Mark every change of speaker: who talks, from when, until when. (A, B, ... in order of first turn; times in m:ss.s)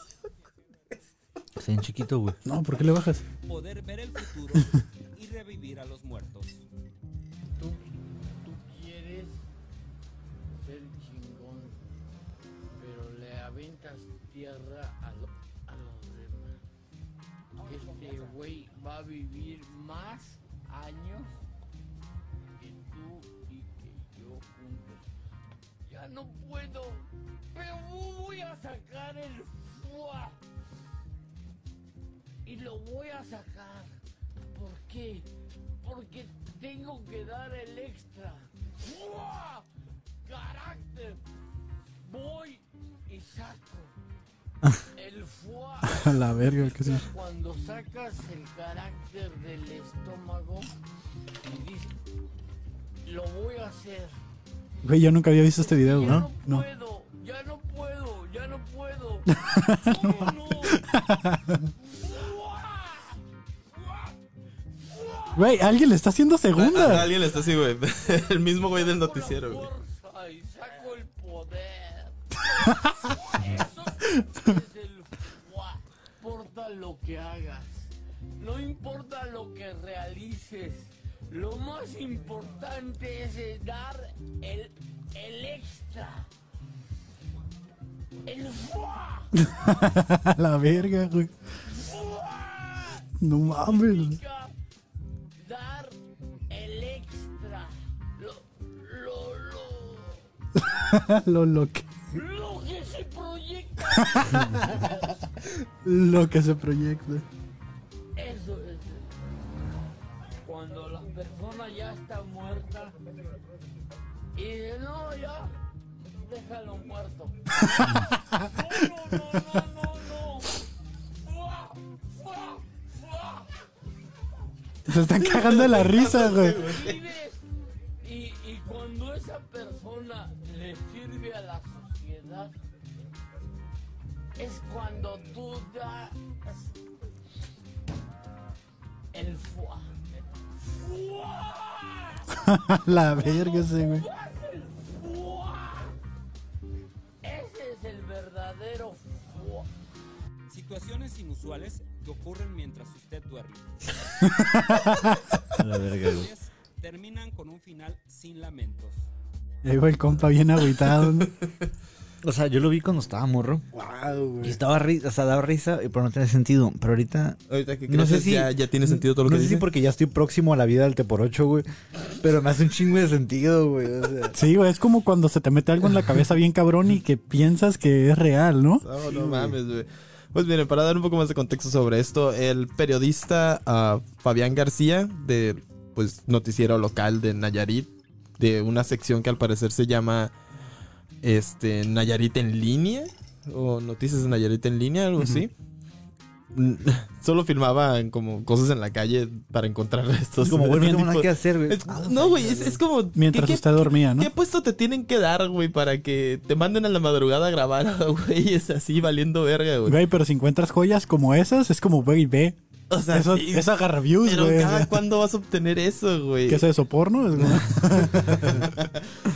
0:01.6-0:02.4 A
0:02.4-0:03.2 B
0:03.5-0:06.6 C
0:07.6-0:09.4 D
0:10.6-0:11.8 D
0:12.8-0:16.6 D
0:17.6-0:21.4 D
0:22.6-0:25.1 D
0:25.9-0:30.4 D
0:32.4-0:34.0 D
0:34.5-0:35.3 D
0:35.8-0:39.7 D
0:40.2-0:41.2 D
0:42.0-0:44.0 D
0:45.0-0:50.7 D
0:45.9-0:47.1 B
0:51.4-0:52.0 D
0:53.0-0:54.2 D
0:54.8-0:56.7 B
0:55.6-1:01.0 D
0:56.0-0:56.3 A
0:59.3-1:01.7 B
1:01.8-1:03.2 D
1:03.7-1:04.1 D
1:04.8-1:05.6 D
1:05.4-1:07.1 B
1:06.6-1:09.7 E
1:08.7-1:26.3 D
1:12.7-1:12.9 B
1:14.1-1:14.4 B
1:28.2-1:29.7 D
1:29.4-1:31.3 B
1:31.7-1:34.5 D
1:33.2-1:34.2 B
1:35.4-1:36.0 D
1:36.5-1:40.2 D
1:40.6-1:41.9 B
1:42.1-1:45.3 D
1:44.0-1:44.9 B
1:45.8-1:47.2 B
1:48.2-1:49.1 D
1:50.4-1:53.0 D
1:54.4-2:00.7 D
1:57.7-1:58.5 B
2:01.2-2:03.5 D
2:04.9-2:06.6 B
2:05.2-2:07.0 E
2:06.1-2:07.4 D
2:08.0-2:12.6 D
2:14.4-2:16.7 D
2:19.1-2:20.0 D
2:20.7-2:22.3 D
2:22.3-2:24.0 B
2:23.2-2:26.0 D
2:27.2-2:29.7 D
2:30.5-2:34.9 C
2:34.2-2:35.2 B
2:35.6-2:36.3 A
2:36.0-2:39.0 C
2:39.6-2:41.3 B
2:42.2-2:43.6 A
2:43.7-2:44.6 B
2:44.4-2:54.4 A
2:47.5-2:49.7 E
2:54.3-2:58.9 B
2:58.8-3:10.3 E
2:59.0-2:59.6 A
3:11.2-3:15.5 E
3:16.5-3:30.0 E
3:20.4-3:22.8 A
3:20.6-3:20.9 B
3:23.2-3:24.3 B
3:29.9-3:32.6 B
3:32.9-3:36.7 E
3:33.1-3:34.9 B
3:36.5-3:38.7 B
3:37.4-3:39.1 E